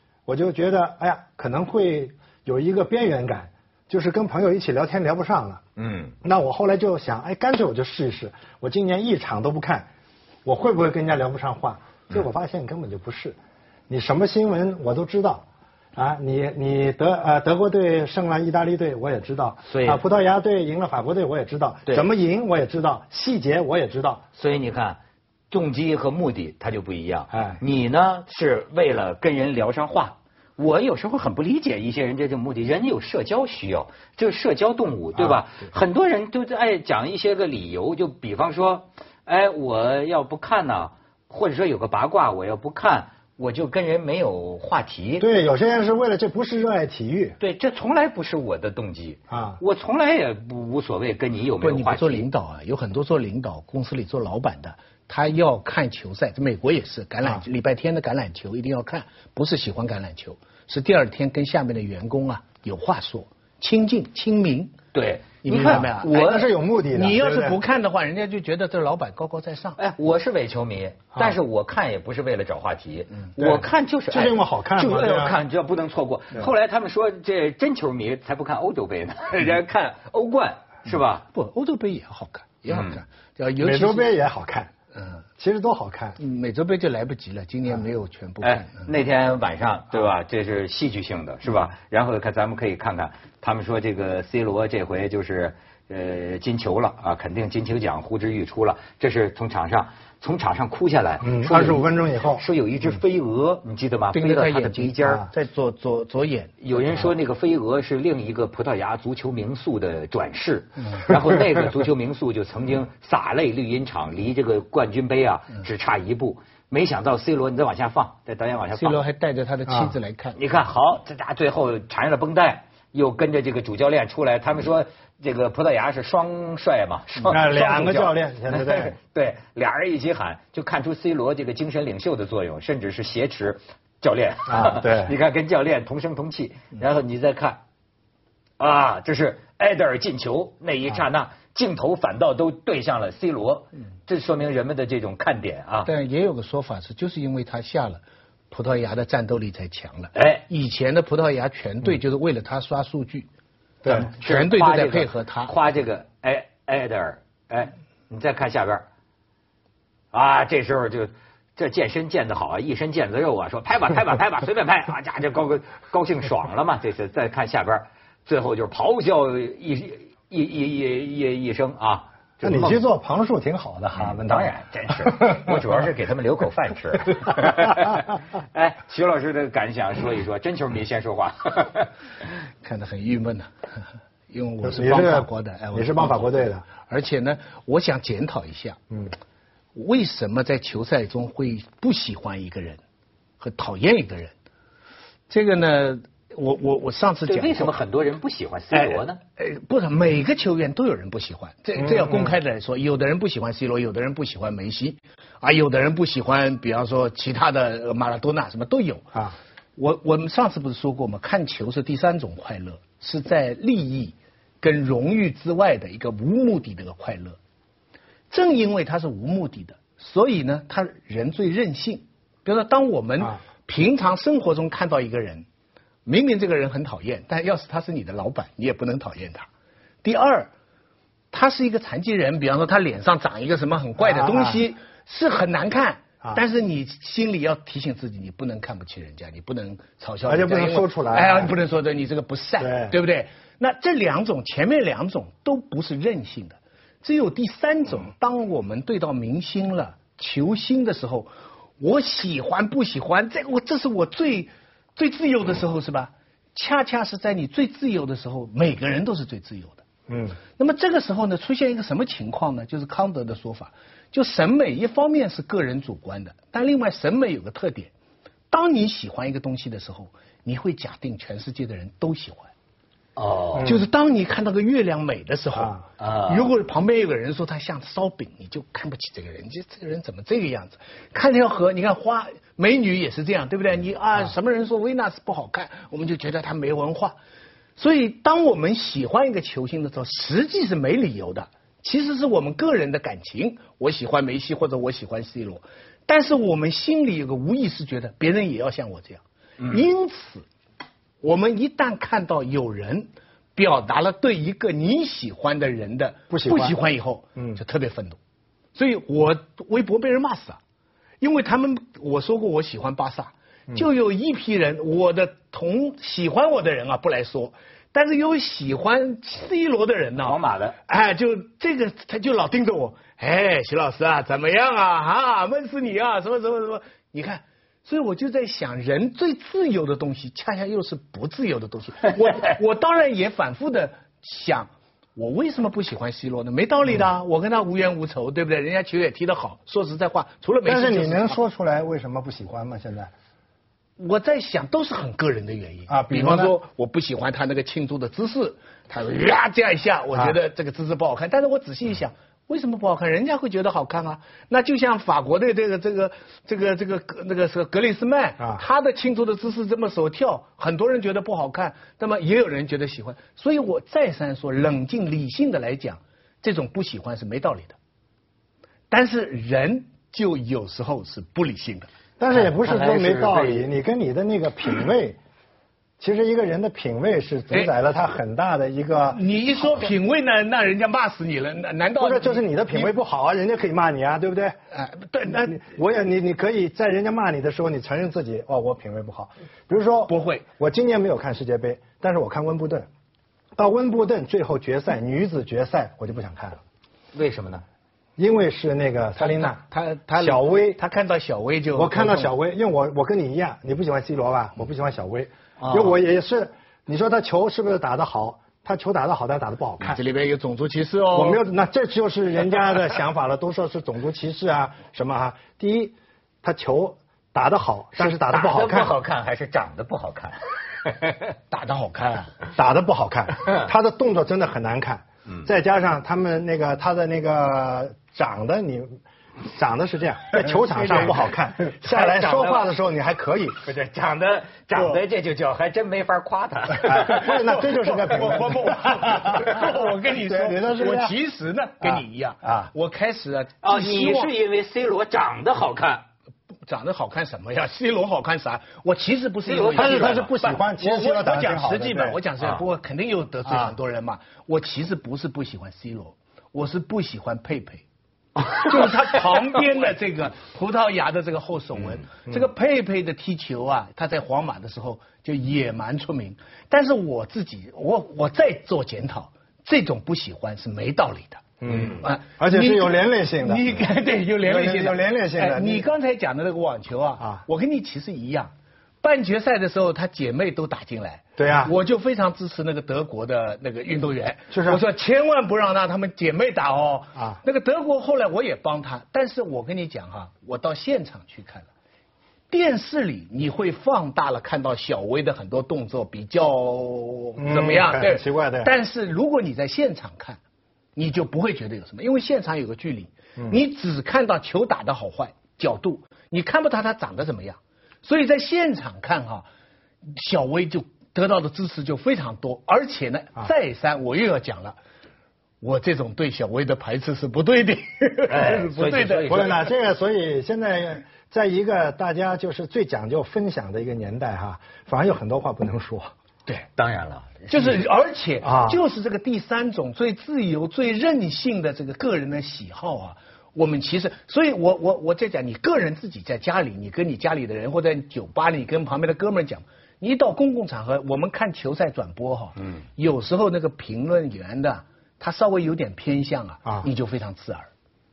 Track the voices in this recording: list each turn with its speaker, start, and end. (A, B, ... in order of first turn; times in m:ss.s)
0:00.3-0:05.6 A
0:05.8-0:06.2 B
0:06.2-0:09.9 A
0:10.4-0:13.4 A
0:13.9-0:15.4 A
0:16.0-0:24.2 A
0:19.7-0:20.0 B
0:24.4-0:25.0 B
0:25.5-0:45.3 B
0:27.3-0:27.6 A
0:35.2-0:35.4 A
0:45.2-0:47.4 A
0:47.4-0:52.3 B
0:49.3-0:49.6 A
0:51.6-1:04.7 C
1:04.9-1:06.5 B
1:05.4-1:06.3 C
1:05.7-1:07.6 A
1:06.9-1:09.8 C
1:09.8-1:21.2 B
1:13.4-1:15.4 A
1:21.3-1:24.1 C
1:22.7-1:23.0 B
1:23.6-1:24.7 A
1:25.0-1:25.2 C
1:25.4-1:26.2 A
1:26.2-1:28.9 C
1:28.4-1:41.8 B
1:41.2-1:42.4 A
1:42.4-1:45.3 B
1:44.1-1:47.1 C
1:46.6-1:59.0 B
1:58.8-2:00.4 C
1:59.7-2:00.0 A
2:00.4-2:17.6 B
2:07.3-2:09.0 A
2:14.5-2:15.1 A
2:18.6-2:25.9 B
2:25.9-2:33.3 C
2:30.2-2:30.4 B
2:33.9-2:35.5 C
2:34.2-2:38.8 B
2:40.1-2:52.8 B
2:52.4-2:55.6 A
2:53.9-3:01.9 B
3:02.6-3:03.5 C
3:04.3-3:08.8 C
3:04.6-3:06.7 A
3:09.8-3:12.8 C
3:13.4-3:14.3 C
3:15.3-3:17.8 C
3:17.3-3:19.2 B
3:18.7-3:29.2 C
3:21.8-3:22.3 A
3:29.8-3:37.4 C
3:38.3-3:45.4 C
3:46.1-3:49.5 C
3:50.0-3:50.5 C
3:51.3-4:19.8 C
3:54.0-3:54.6 A
4:00.3-4:01.5 A
4:02.6-4:03.0 A
4:20.1-4:20.4 A
4:20.6-4:27.9 C
4:28.5-4:32.5 C
4:33.2-4:33.7 B
4:33.6-4:33.9 A
4:33.6-4:47.2 C
4:36.0-4:36.5 B
4:47.8-5:00.4 C
5:01.2-5:08.2 C
5:06.3-5:06.8 A
5:08.8-5:10.6 C
5:11.2-5:41.4 C
5:20.2-5:20.8 B
5:40.6-5:43.1 A
5:44.0-6:07.8 C
5:45.9-5:46.6 A
6:08.9-6:11.9 C
6:12.2-6:15.2 A
6:12.4-6:13.7 B
6:16.0-6:19.2 A
6:19.1-6:22.9 C
6:22.0-6:24.6 A
6:24.7-6:25.6 C
6:25.3-6:32.9 A
6:30.1-6:30.4 C
6:33.6-6:36.6 A
6:37.1-6:37.6 B
6:38.2-6:39.6 A
6:39.2-6:42.3 C
6:40.2-6:40.8 A
6:41.8-6:50.0 A
6:45.6-6:46.0 B
6:49.8-6:51.4 C
6:51.1-6:59.0 A
6:58.0-7:01.2 B
7:01.5-7:02.3 C
7:02.5-7:13.6 A
7:11.8-7:12.7 B
7:13.6-7:17.4 B
7:16.8-7:21.1 A
7:17.4-7:24.3 C
7:21.8-7:22.7 A
7:23.6-7:26.0 B
7:26.7-7:37.8 C
7:29.5-7:30.6 B
7:29.7-7:32.2 A
7:33.5-7:33.8 A
7:38.6-8:11.7 C
7:51.6-7:53.9 A
7:54.4-7:55.9 A
8:01.4-8:01.8 A
8:04.5-8:04.8 A
8:12.5-8:20.4 C
8:17.4-8:18.7 A
8:21.0-8:29.5 C
8:30.1-8:34.8 C
8:35.6-8:39.5 C
8:38.3-8:39.7 B
8:39.3-8:46.1 A
8:46.8-8:47.8 B
8:47.5-9:07.7 C
8:48.4-8:48.8 A